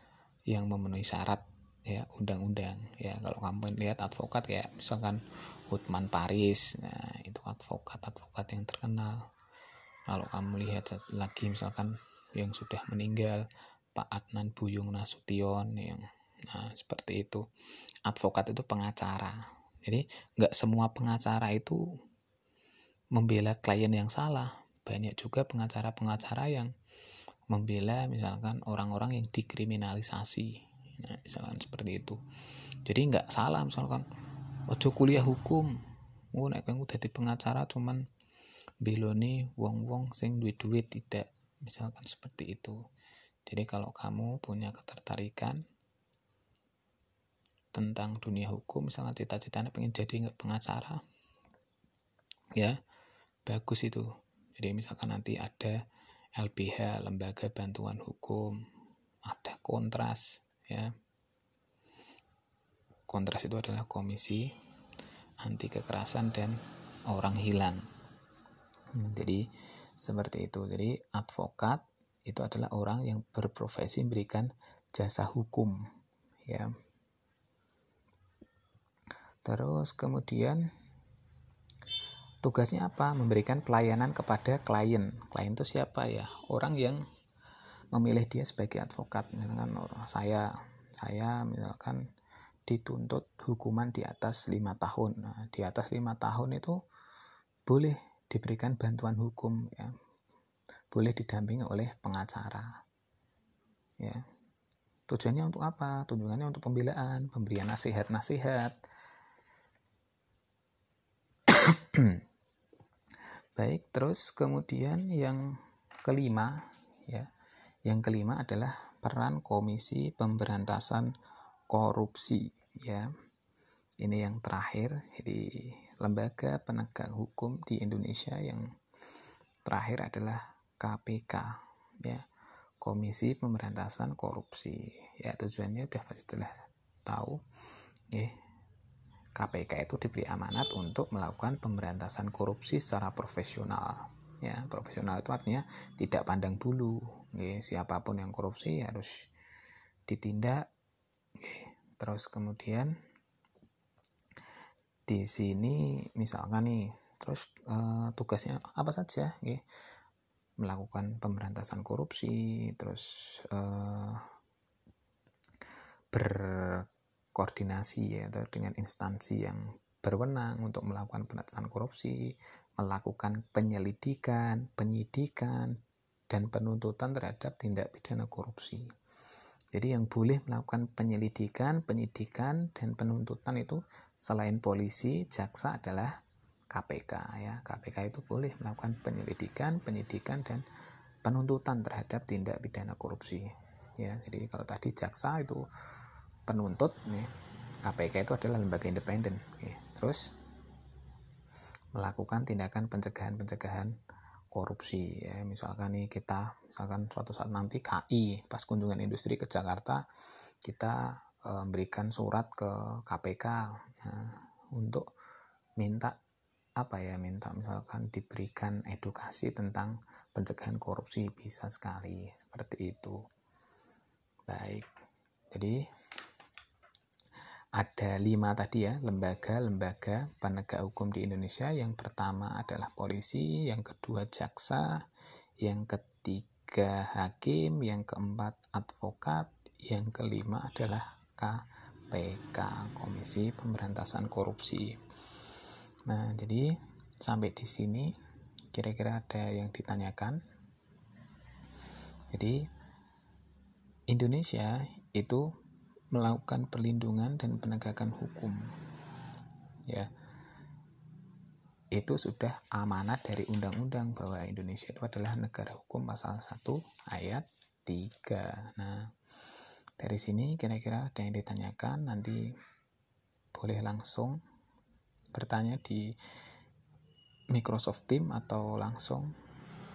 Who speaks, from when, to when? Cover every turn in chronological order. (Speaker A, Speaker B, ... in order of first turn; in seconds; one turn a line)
Speaker A: 0.5-9.2
Speaker A: 10.1-13.4
Speaker A: 13.9-17.4
Speaker A: 18.1-21.8
Speaker A: 23.1-26.7
Speaker A: 27.5-32.2
Speaker A: 32.9-34.1
Speaker A: 34.7-35.7
Speaker A: 36.3-38.0
Speaker A: 38.9-42.8
Speaker A: 43.5-45.6
Speaker A: 47.7-51.0
Speaker A: 53.5-55.8
Speaker A: 56.4-58.6
Speaker A: 59.2-60.9
Speaker A: 63.1-64.5
Speaker A: 65.4-67.8
Speaker A: 69.0-69.5
Speaker A: 70.0-75.8
Speaker A: 79.5-80.7
Speaker A: 82.4-87.0
Speaker A: 87.9-92.0
Speaker A: 92.7-96.8
Speaker A: 97.7-99.9
Speaker A: 100.9-102.8
Speaker A: 105.1-108.8
Speaker A: 111.5-112.2
Speaker A: 113.6-117.3
Speaker A: 117.9-121.1
Speaker A: 121.7-123.1
Speaker A: 124.0-128.7
Speaker A: 129.7-132.2
Speaker A: 132.8-136.5
Speaker A: 137.1-137.4
Speaker A: 139.4-149.1
Speaker A: 150.1-150.6
Speaker A: 151.4-152.9
Speaker A: 155.1-159.6
Speaker A: 160.6-164.2
Speaker A: 166.1-175.8
Speaker A: 176.3-178.9
Speaker A: 179.7-186.1
Speaker A: 186.7-190.6
Speaker A: 191.2-195.6
Speaker A: 196.5-197.3
Speaker A: 197.8-200.3
Speaker A: 201.9-203.9
Speaker A: 204.5-210.0
Speaker A: 210.6-215.1
Speaker A: 215.8-216.2
Speaker A: 216.8-223.2
Speaker A: 224.5-224.9
Speaker A: 225.5-225.8
Speaker A: 227.8-234.9
Speaker A: 235.6-245.0
Speaker A: 246.1-248.1
Speaker A: 248.7-250.4
Speaker A: 252.3-252.6
Speaker A: 254.1-255.5
Speaker A: 256.1-258.6
Speaker A: 261.9-269.1
Speaker A: 270.0-272.4
Speaker A: 273.6-274.4
Speaker A: 275.3-276.1
Speaker A: 277.5-279.3